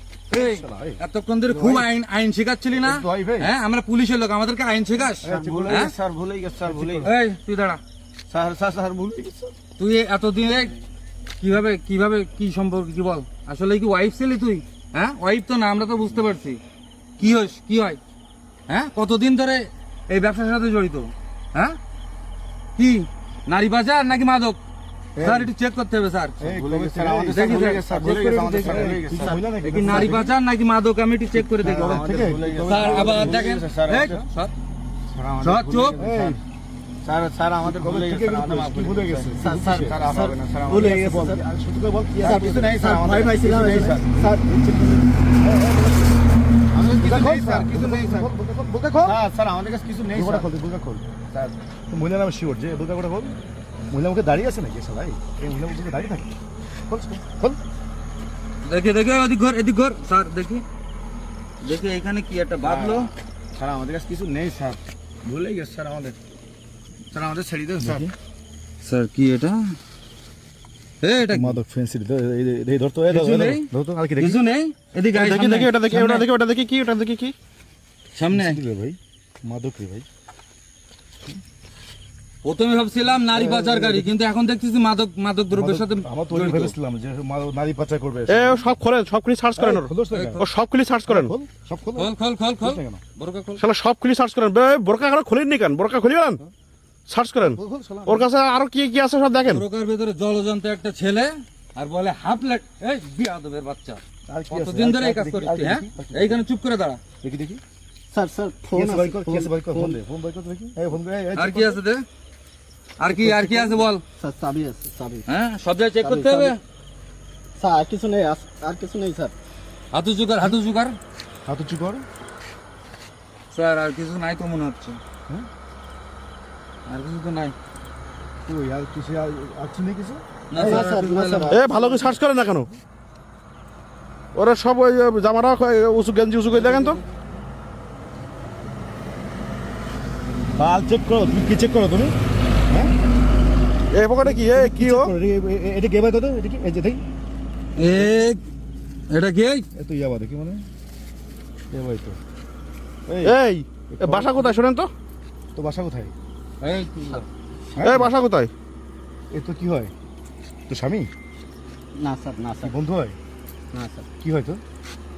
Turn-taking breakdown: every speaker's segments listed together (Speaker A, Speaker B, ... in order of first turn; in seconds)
Speaker A: 0.3-5.9, 7.0-7.8, 9.8-10.7, 11.4-16.6, 17.2-18.0, 18.7-21.8, 22.8-24.6, 25.2-26.4, 27.3-29.0, 29.6-32.0, 32.6-34.5, 35.4-36.0, 58.6-60.6, 61.6-63.1, 68.8-69.8, 71.0-71.6, 73.1-73.7, 74.2-76.3, 78.2-78.6, 82.4-86.7, 90.1-90.4, 92.0-93.6, 99.4-107.0, 111.3-112.0, 113.0-114.0, 115.3-116.6, 119.9-121.0, 123.5-125.0, 126.9-127.5, 130.5-131.6, 147.8-148.4, 149.1-149.7, 156.6-157.3
Speaker B: 0.3-1.9, 2.8-3.5, 5.2-5.8, 6.7-7.2, 26.4-30.3, 31.6-33.5, 36.0-36.4, 37.6-40.0, 40.7-42.8, 45.4-46.0, 47.0-49.2, 50.1-51.1, 51.9-53.4, 53.9-56.3, 56.9-57.6, 67.8-68.1, 71.3-74.4, 78.3-80.1, 83.3-84.1, 85.5-88.8, 89.5-90.5, 91.0-93.0, 97.4-98.3, 104.3-106.4, 107.2-107.6, 108.7-111.8, 121.5-122.0, 128.5-130.9, 140.6-142.2, 144.2-147.0, 149.7-150.6, 151.7-152.2, 153.1-154.6, 155.6-156.1, 157.8-158.1, 159.3-159.9, 160.7-161.1, 162.6-163.2, 164.2-164.6
Speaker C: 5.2-7.1, 8.3-9.5, 25.2-25.5, 26.4-30.2, 31.6-34.3, 35.1-36.4, 37.0-41.1, 42.2-44.1, 46.7-48.3, 49.0-50.5, 62.6-66.2, 67.1-68.1
Speaker D: 39.4-41.4, 42.2-45.1, 108.1-110.0, 113.1-115.3, 116.0-116.5, 117.6-119.3, 130.6-132.2, 161.9-162.7, 163.7-164.1
Speaker E: 75.1-77.3, 88.3-91.3, 93.6-96.4, 97.1-99.6, 131.4-132.7, 134.3-137.0, 143.9-145.1, 153.2-154.9, 157.8-158.5